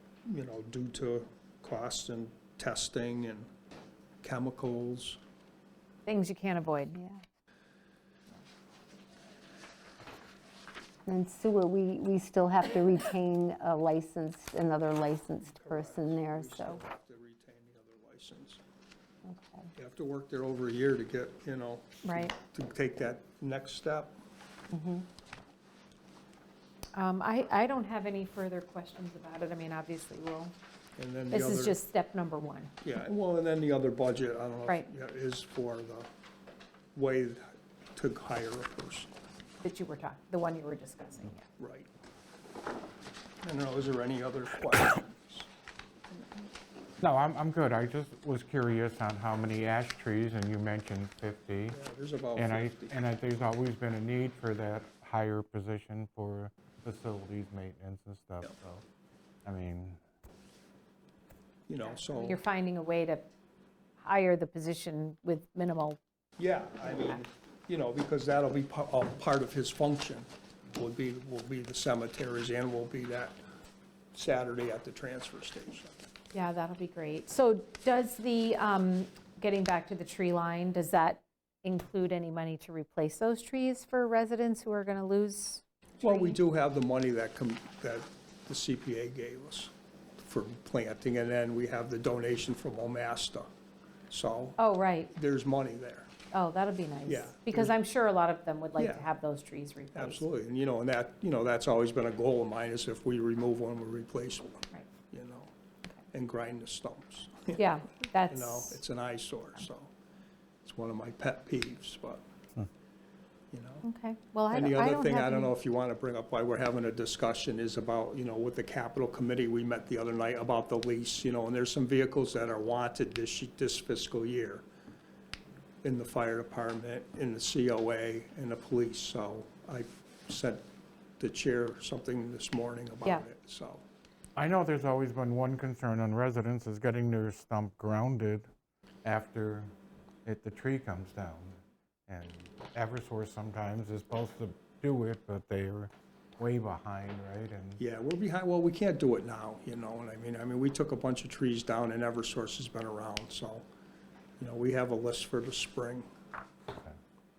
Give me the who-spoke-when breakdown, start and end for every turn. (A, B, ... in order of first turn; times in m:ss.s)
0:00.2-0:03.5 A
0:04.2-0:05.2 A
0:06.0-0:07.0 B
0:06.9-0:07.2 C
0:11.0-0:16.8 C
0:15.5-0:18.6 A
0:19.2-0:19.7 C
0:19.8-0:24.2 A
0:22.0-0:22.3 B
0:24.7-0:25.1 C
0:26.9-0:30.5 B
0:31.0-0:31.8 A
0:31.3-0:32.7 B
0:32.8-0:36.1 A
0:36.9-0:39.1 A
0:39.6-0:41.5 B
0:41.6-0:41.9 A
0:43.4-0:45.5 A
0:46.2-0:46.4 A
0:47.0-0:51.8 D
0:51.7-0:53.0 A
0:52.4-0:58.8 D
0:59.4-1:00.0 D
1:01.7-1:02.4 A
1:01.9-1:03.3 B
1:04.0-1:06.0 B
1:06.4-1:13.3 A
1:14.1-1:15.9 A
1:16.3-1:26.4 B
1:26.0-1:33.5 A
1:34.1-1:34.6 A
1:34.6-1:35.1 B
1:35.1-1:36.1 A
1:36.3-1:40.2 B
1:37.1-1:37.7 A
1:38.8-1:39.0 A
1:39.9-1:45.5 A
1:46.1-1:47.6 A
1:47.6-1:48.8 B
1:48.3-1:49.9 A
1:50.6-1:52.2 A
1:53.5-1:53.8 A
1:53.8-1:55.5 B
1:54.5-2:04.6 A
2:05.8-2:10.6 A
2:11.2-2:13.8 A
2:14.4-2:18.5 D
2:19.0-2:19.7 D
2:20.2-2:21.6 D
2:22.1-2:27.8 D
2:27.8-2:33.6 A
2:34.4-2:36.0 A